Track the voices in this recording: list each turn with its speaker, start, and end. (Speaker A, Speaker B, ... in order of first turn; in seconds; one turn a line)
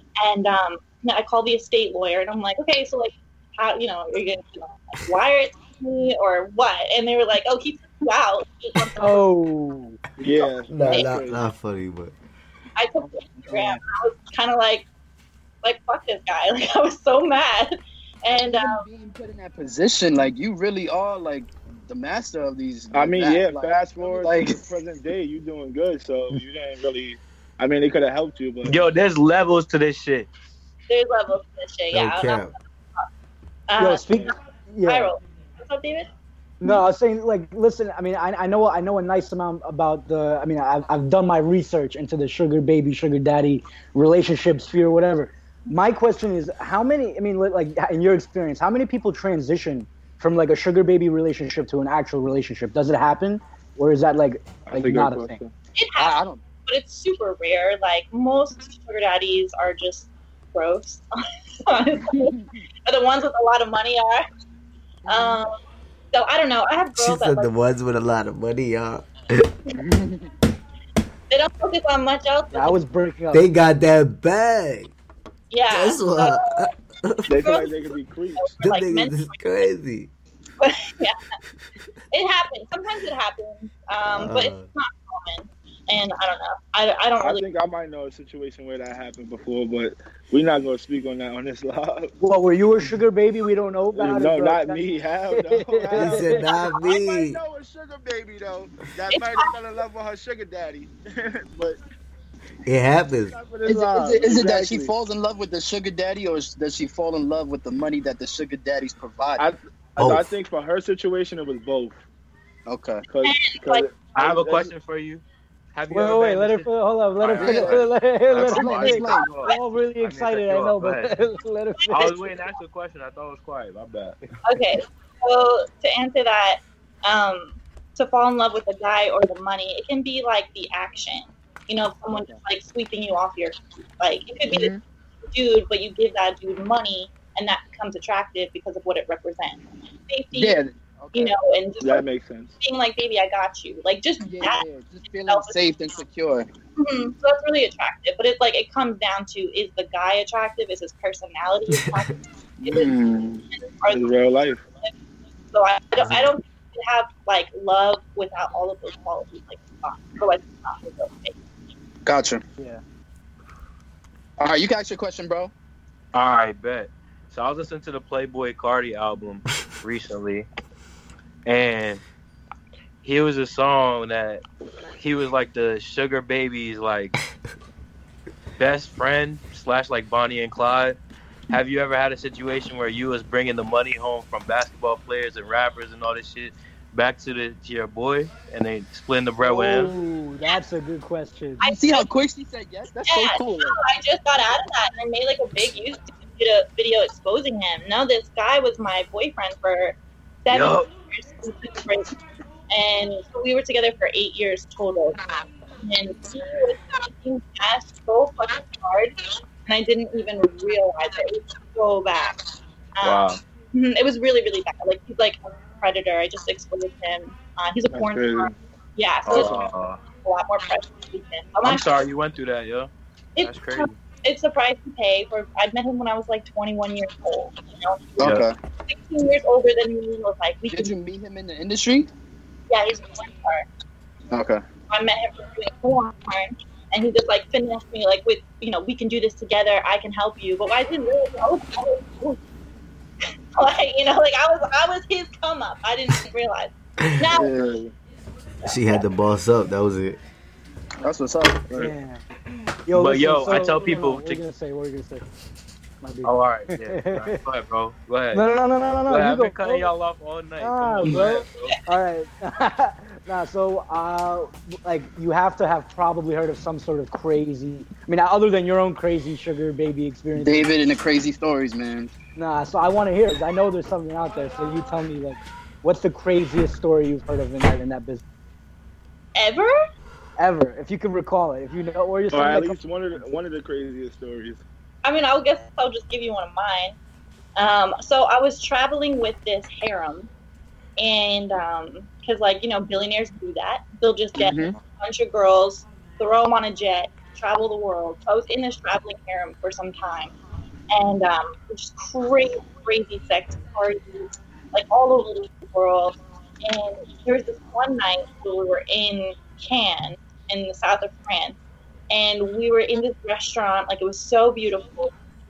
Speaker A: 0.2-9.2
Speaker B: 9.0-10.0
Speaker C: 10.2-11.4
Speaker D: 10.7-12.1
Speaker A: 12.8-14.9
Speaker A: 15.6-18.9
Speaker E: 18.3-24.6
Speaker C: 22.9-28.8
Speaker F: 28.6-30.3
Speaker A: 30.9-33.1
Speaker D: 31.9-32.5
Speaker A: 33.7-34.3
Speaker B: 33.8-35.1
Speaker A: 34.9-36.1
Speaker B: 36.6-55.4
Speaker C: 54.7-55.5
Speaker A: 55.8-61.1
Speaker E: 56.0-56.4
Speaker A: 61.7-64.2
Speaker E: 62.1-62.6
Speaker E: 65.0-65.4
Speaker A: 65.1-65.6
Speaker A: 66.1-67.5
Speaker D: 67.0-69.5
Speaker E: 69.8-70.3
Speaker A: 71.3-72.8
Speaker B: 72.5-73.5
Speaker D: 73.3-74.9
Speaker A: 75.5-76.7
Speaker D: 75.7-77.4
Speaker C: 77.3-78.5
Speaker A: 77.4-79.5
Speaker D: 78.6-80.1
Speaker A: 80.6-81.2
Speaker A: 82.1-87.4
Speaker D: 84.1-84.7
Speaker C: 87.2-92.1
Speaker B: 92.2-96.4
Speaker C: 94.0-101.8
Speaker D: 95.9-97.4
Speaker A: 99.1-99.5
Speaker D: 102.7-103.4
Speaker C: 103.3-104.9
Speaker E: 103.6-109.5
Speaker C: 109.4-112.0
Speaker D: 110.0-110.3
Speaker E: 112.7-113.0
Speaker C: 113.1-114.7
Speaker A: 113.2-113.9
Speaker F: 114.2-115.2
Speaker F: 115.7-116.7
Speaker B: 115.9-122.2
Speaker F: 117.2-121.1
Speaker E: 117.3-119.3
Speaker F: 121.9-124.2
Speaker A: 124.5-134.7
Speaker E: 134.5-134.8
Speaker A: 135.3-140.6
Speaker E: 140.3-141.3
Speaker A: 141.1-142.1
Speaker C: 141.8-142.5
Speaker A: 142.6-144.6
Speaker E: 144.2-146.5
Speaker A: 145.3-145.6
Speaker A: 146.8-152.2
Speaker D: 151.7-152.1
Speaker E: 152.6-153.4
Speaker C: 152.7-154.6
Speaker A: 153.7-154.1
Speaker A: 155.5-161.3
Speaker E: 162.1-162.4
Speaker E: 164.4-165.5
Speaker F: 166.1-170.5
Speaker F: 171.4-172.0
Speaker F: 173.0-174.4
Speaker F: 175.0-177.2
Speaker F: 178.6-181.0
Speaker F: 181.5-189.9
Speaker B: 189.4-191.6
Speaker A: 191.6-192.1
Speaker E: 191.6-193.8
Speaker A: 193.1-202.1
Speaker F: 200.5-200.9
Speaker A: 202.7-212.4
Speaker A: 213.0-219.6
Speaker F: 213.0-213.4
Speaker C: 217.9-218.5
Speaker F: 219.3-220.0
Speaker C: 219.3-219.7
Speaker A: 220.2-221.9
Speaker F: 221.6-224.0
Speaker A: 223.4-228.3
Speaker E: 228.2-228.6
Speaker F: 228.2-228.5
Speaker A: 228.9-230.9
Speaker E: 230.7-232.1
Speaker A: 232.7-233.7
Speaker E: 234.3-234.6
Speaker A: 234.9-242.4
Speaker A: 243.6-247.5
Speaker E: 247.3-247.8
Speaker C: 247.4-247.9
Speaker A: 248.6-249.0
Speaker D: 248.6-250.2
Speaker E: 251.0-251.7
Speaker B: 251.8-252.2
Speaker B: 252.9-255.2
Speaker F: 252.9-254.4
Speaker B: 256.0-257.4
Speaker F: 256.2-258.5
Speaker B: 258.3-259.9
Speaker F: 259.1-261.8
Speaker B: 260.6-270.7
Speaker E: 270.4-272.1
Speaker B: 272.4-278.2
Speaker A: 279.4-279.7
Speaker B: 280.4-283.2
Speaker C: 282.3-284.6
Speaker A: 285.0-287.0
Speaker A: 287.6-290.3
Speaker A: 291.0-300.3
Speaker E: 294.4-294.8
Speaker A: 300.9-311.6
Speaker A: 312.1-315.1